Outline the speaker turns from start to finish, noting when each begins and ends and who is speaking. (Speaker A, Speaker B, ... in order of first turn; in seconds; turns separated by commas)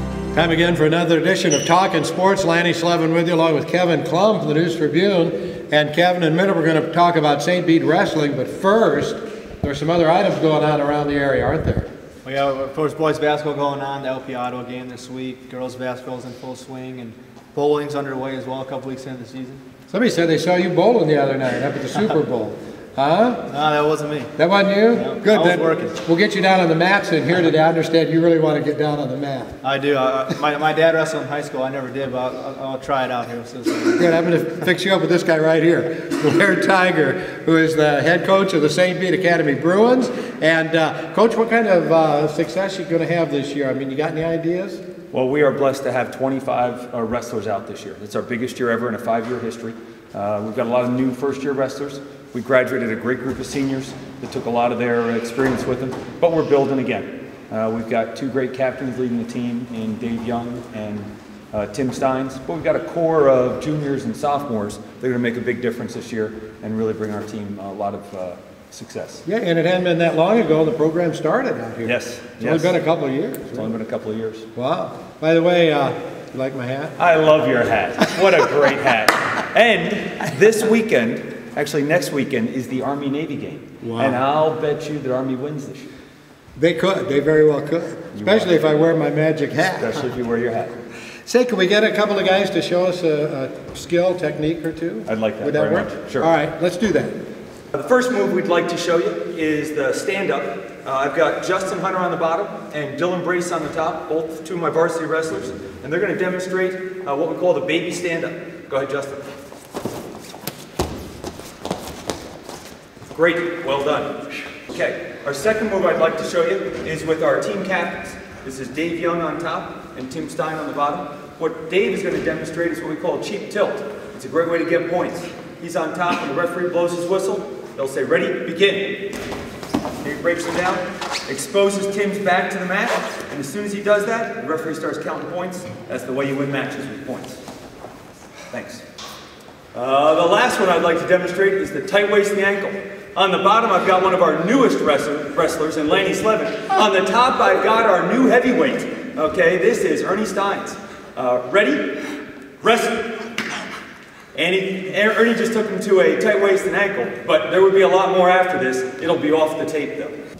Speaker A: 0.3-11.9, Speaker B: 12.2-19.6, Speaker A: 19.9-23.4, Speaker B: 23.5-24.3, Speaker A: 24.4-29.6, Speaker B: 24.9-25.9, Speaker B: 29.6-34.0, Speaker A: 34.0-44.8, Speaker C: 45.1-69.2, Speaker A: 69.3-73.7, Speaker C: 71.8-72.8, Speaker C: 73.5-74.5, Speaker A: 74.5-77.0, Speaker C: 77.0-85.9, Speaker A: 83.8-84.2, Speaker A: 86.6-90.0, Speaker C: 88.1-88.7, Speaker C: 89.8-90.7, Speaker A: 91.3-97.1, Speaker C: 95.1-96.3, Speaker C: 97.7-109.2, Speaker C: 113.1-129.1, Speaker C: 130.0-137.4, Speaker C: 138.5-138.8, Speaker C: 139.7-152.0, Speaker C: 152.6-153.1, Speaker C: 154.3-160.2